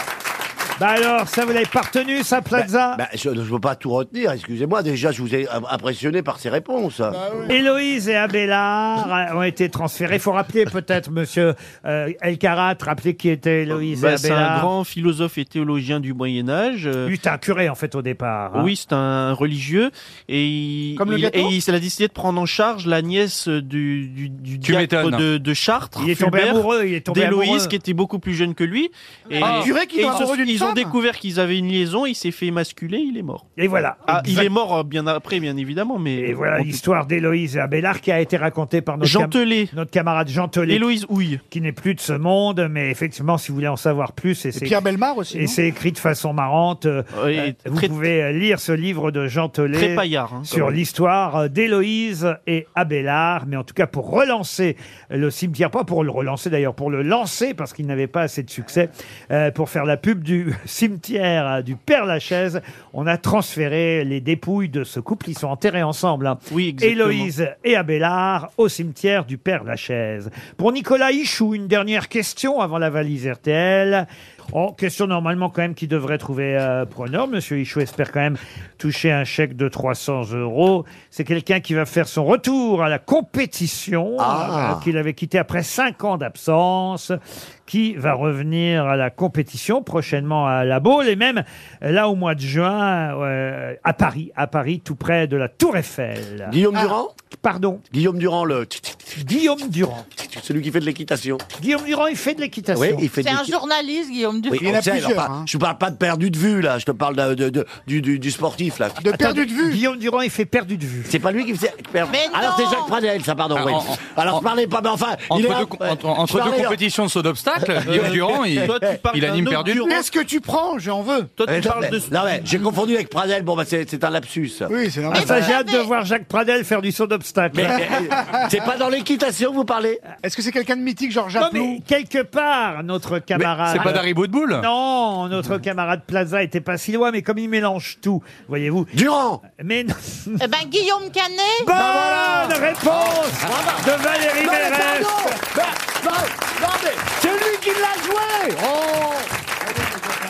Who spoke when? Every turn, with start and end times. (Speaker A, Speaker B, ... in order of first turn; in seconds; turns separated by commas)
Speaker A: 0.8-3.0, Speaker B: 2.5-7.2, Speaker C: 7.1-7.5, Speaker A: 7.5-14.7, Speaker D: 13.7-17.1, Speaker A: 17.0-18.7, Speaker D: 18.5-33.5, Speaker C: 20.9-21.5, Speaker E: 24.6-25.2, Speaker A: 26.0-27.8, Speaker C: 29.4-30.9, Speaker E: 29.4-29.7, Speaker A: 33.6-34.5, Speaker D: 34.1-36.8, Speaker A: 36.2-40.9, Speaker D: 39.0-39.7, Speaker D: 40.7-41.4, Speaker A: 41.5-44.8, Speaker C: 44.5-45.6, Speaker A: 45.3-96.6, Speaker D: 47.1-48.0, Speaker D: 49.7-50.8, Speaker D: 66.5-67.3, Speaker B: 84.2-84.9, Speaker B: 96.5-97.1, Speaker A: 97.3-97.8, Speaker B: 97.9-99.2, Speaker A: 99.2-100.0, Speaker B: 100.1-101.4, Speaker A: 101.6-103.1, Speaker B: 102.7-103.5, Speaker F: 103.2-104.7, Speaker B: 104.5-109.1, Speaker C: 104.6-105.5, Speaker C: 109.0-109.8, Speaker A: 109.1-111.1, Speaker B: 111.0-116.8, Speaker F: 112.1-112.9, Speaker E: 113.5-114.4, Speaker E: 115.3-119.8, Speaker B: 117.6-119.0, Speaker D: 117.8-120.0, Speaker C: 119.8-121.3, Speaker D: 121.4-122.5, Speaker B: 121.5-124.7, Speaker C: 124.7-125.4, Speaker A: 125.1-127.9, Speaker F: 125.1-125.9, Speaker B: 127.5-130.0, Speaker C: 127.7-128.4, Speaker C: 130.2-131.8, Speaker A: 131.4-140.4, Speaker B: 133.3-134.0, Speaker E: 133.7-134.7, Speaker B: 138.9-139.4, Speaker F: 140.4-141.7, Speaker A: 141.6-145.4, Speaker C: 141.7-142.6, Speaker B: 142.8-149.3